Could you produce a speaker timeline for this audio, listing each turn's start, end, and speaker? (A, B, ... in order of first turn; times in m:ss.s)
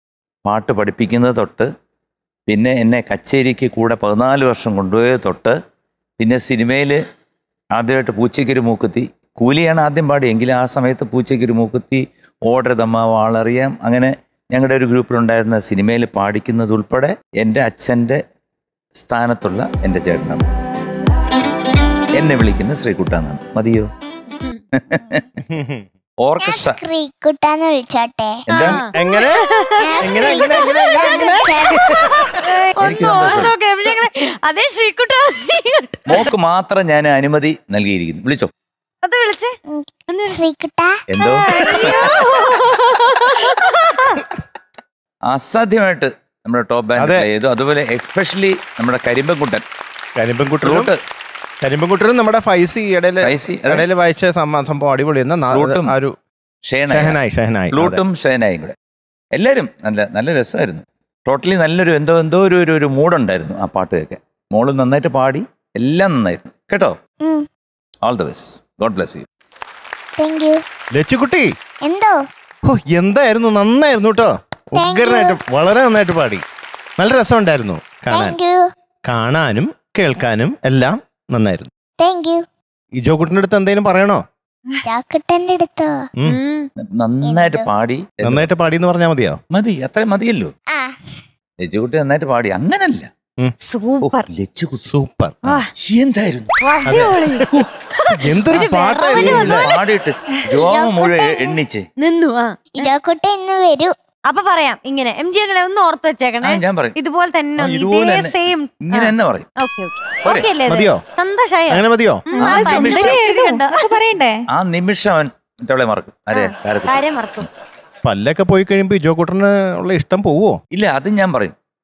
0:00.4-0:01.7 A
0:02.5-0:05.6 A
0:06.2-0:07.0 A
0:07.7-0:18.2 A
0:19.0-0:20.4 A
0:22.1-0:23.9 A
0:24.7-0:25.2 A
0:25.5-0:25.9 B
0:26.2-0:26.8 A
0:26.4-0:28.7 C
0:28.5-0:28.8 A
0:28.5-0:31.5 D
0:28.9-0:29.4 B
0:29.8-0:31.8 C
0:30.0-0:32.4 B
0:32.4-0:36.3 D
0:32.8-0:33.5 A
0:36.1-0:38.5 A
0:39.0-0:39.6 D
0:39.7-0:41.0 C
0:40.1-0:40.4 D
0:41.1-0:42.0 A
0:41.2-0:44.2 D
0:45.3-0:49.6 A
0:47.0-0:47.2 B
0:50.2-0:50.9 B
0:50.6-0:51.0 A
0:51.6-0:56.2 B
0:53.2-0:53.9 A
0:55.5-0:55.9 A
0:56.7-0:57.2 A
0:56.9-0:58.0 B
0:57.7-0:58.7 A
0:59.3-1:06.9 A
1:08.0-1:09.2 A
1:10.2-1:10.6 C
1:10.9-1:11.5 B
1:11.8-1:12.2 C
1:12.6-1:16.4 B
1:14.8-1:15.4 C
1:17.0-1:18.4 B
1:18.1-1:18.6 C
1:19.0-1:21.7 B
1:22.0-1:22.4 C
1:23.0-1:24.2 B
1:24.8-1:26.1 C
1:26.3-1:26.7 D
1:26.8-1:28.5 A
1:27.2-1:27.7 C
1:28.2-1:29.4 B
1:29.5-1:30.5 A
1:30.7-1:31.1 C
1:31.6-1:33.1 A
1:33.7-1:34.3 D
1:34.0-1:34.9 A
1:34.8-1:35.6 B
1:35.4-1:35.7 D
1:35.8-1:36.5 A
1:36.6-1:37.5 D
1:36.9-1:37.4 B
1:38.0-1:39.8 D
1:38.2-1:39.7 B
1:38.6-1:41.8 A
1:40.5-1:41.6 C
1:42.0-1:42.6 D
1:42.8-1:43.9 C
1:44.3-1:54.0 D
1:46.4-1:47.0 A
1:47.6-1:49.5 A
1:50.2-1:50.5 A
1:50.6-1:51.0 B
1:51.7-1:52.2 B
1:52.4-1:54.4 E
1:52.4-1:53.2 A
1:54.5-1:57.0 A
1:56.3-1:57.5 D
1:58.0-2:00.6 B
2:00.7-2:01.6 A